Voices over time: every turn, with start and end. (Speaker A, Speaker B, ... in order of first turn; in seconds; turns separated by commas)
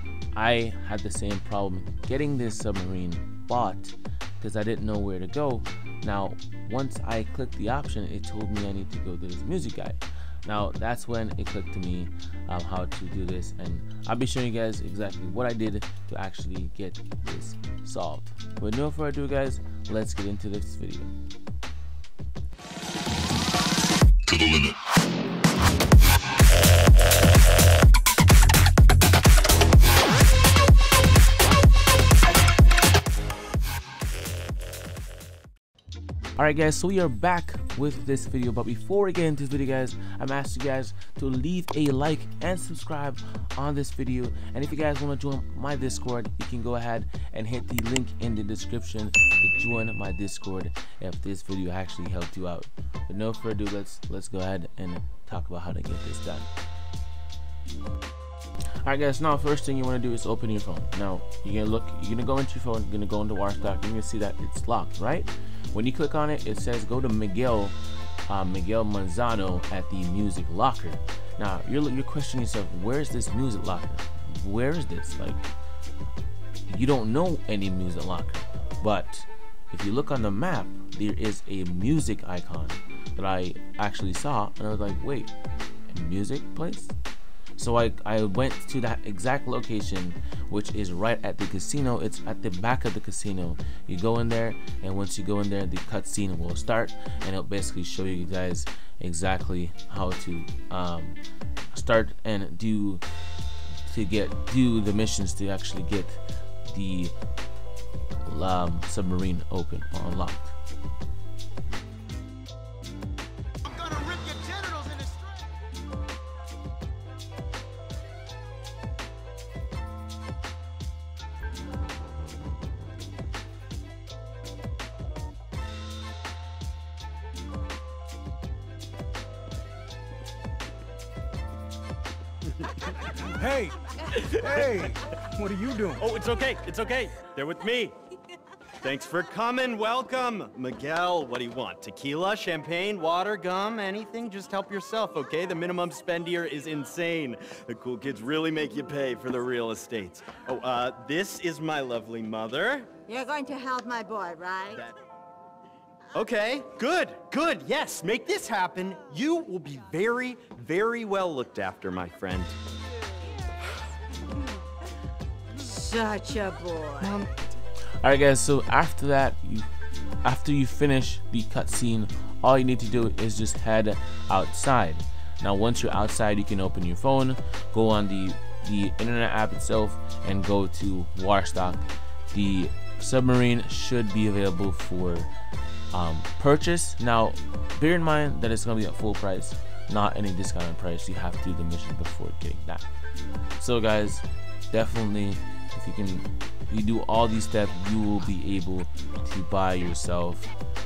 Speaker A: 0.3-21.1, Speaker A: 36.4-56.5, Speaker A: 58.8-67.8, Speaker A: 68.3-75.4, Speaker A: 76.7-85.3, Speaker A: 85.9-86.9, Speaker A: 87.5-101.2, Speaker A: 101.7-103.0, Speaker A: 103.9-107.1, Speaker A: 108.2-110.5, Speaker B: 114.2-114.8, Speaker B: 133.3-133.8, Speaker C: 134.0-134.5, Speaker B: 134.3-136.0, Speaker C: 135.9-137.9, Speaker C: 138.8-153.0, Speaker D: 153.1-154.8, Speaker C: 156.1-162.6, Speaker D: 165.6-167.2, Speaker C: 167.0-167.3, Speaker A: 168.0-169.7, Speaker A: 170.2-185.3, Speaker A: 185.9-192.9, Speaker A: 193.6-200.5